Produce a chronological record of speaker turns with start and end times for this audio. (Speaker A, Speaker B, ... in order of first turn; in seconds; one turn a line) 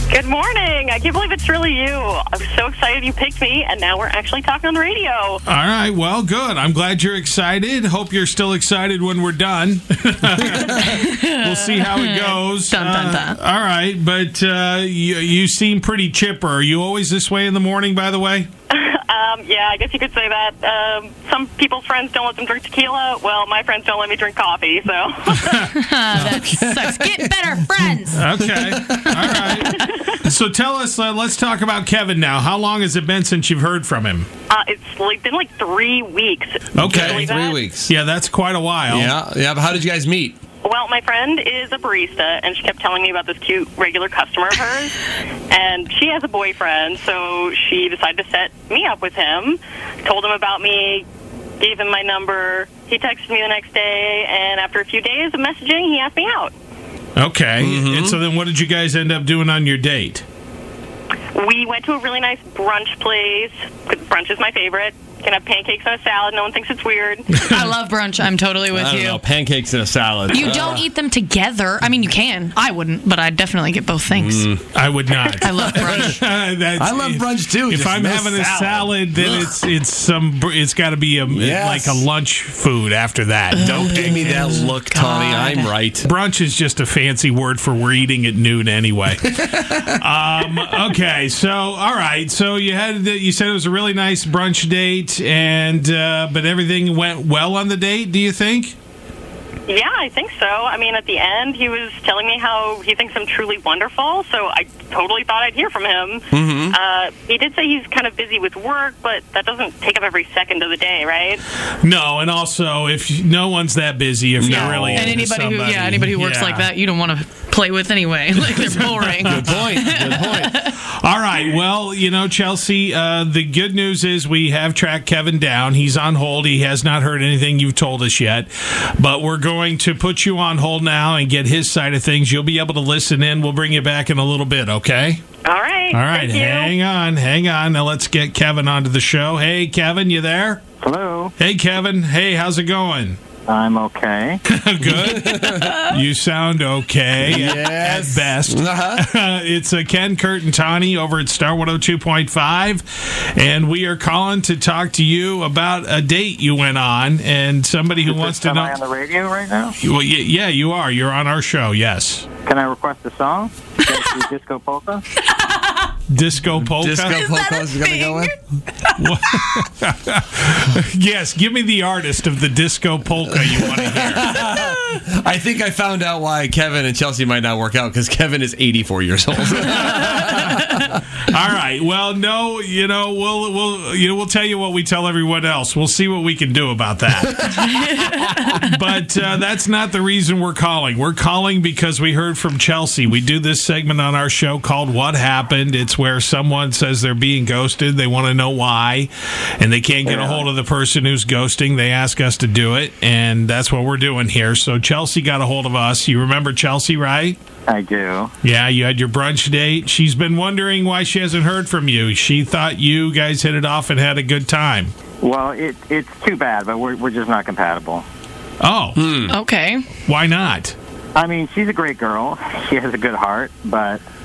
Speaker A: 0.1-5.4
Speaker B: 5.5-18.5
Speaker C: 10.9-13.4
Speaker A: 18.7-25.6
Speaker C: 25.7-28.2
Speaker B: 26.1-26.4
Speaker D: 26.1-29.9
Speaker B: 28.1-34.3
Speaker A: 34.5-37.6
Speaker B: 36.7-37.3
Speaker D: 36.8-37.9
Speaker B: 37.9-39.1
Speaker D: 38.9-40.4
Speaker A: 40.6-51.0
Speaker A: 51.6-56.5
Speaker B: 57.2-60.2
Speaker D: 57.6-58.2
Speaker A: 61.3-67.5
Speaker C: 67.3-69.2
Speaker D: 68.7-70.8
Speaker C: 70.3-74.6
Speaker D: 74.1-74.6
Speaker B: 74.7-84.6
Speaker C: 75.4-76.2
Speaker D: 75.5-76.2
Speaker D: 76.8-79.3
Speaker D: 81.3-82.0
Speaker D: 83.6-86.1
Speaker C: 83.7-85.7
Speaker B: 86.0-98.8
Speaker D: 89.5-89.9
Speaker A: 99.7-111.4
Speaker D: 106.3-106.8
Speaker B: 111.8-116.7
Speaker D: 114.4-115.2
Speaker C: 114.5-120.7
Speaker B: 118.3-119.8
Speaker D: 119.2-120.6
Speaker B: 120.7-135.2
Speaker A: 135.4-136.7
Speaker B: 135.9-140.6
Speaker E: 140.8-141.3
Speaker B: 141.4-143.2
Speaker E: 143.5-144.4
Speaker B: 144.4-158.8
Speaker D: 144.9-145.8
Speaker D: 147.2-149.1
Speaker E: 158.0-159.8
Speaker B: 159.8-162.3
Speaker E: 162.4-165.0
Speaker C: 165.4-165.9
Speaker B: 166.1-167.3
Speaker D: 166.6-168.3
Speaker C: 167.2-169.1
Speaker B: 169.0-174.4
Speaker D: 173.4-180.8
Speaker B: 179.6-180.8
Speaker B: 181.3-207.4
Speaker E: 200.0-200.5
Speaker E: 207.7-208.3
Speaker B: 208.4-214.9
Speaker E: 215.2-218.0
Speaker B: 218.6-219.0
Speaker D: 219.0-219.3
Speaker C: 219.3-219.9
Speaker B: 220.0-220.7
Speaker E: 221.2-224.0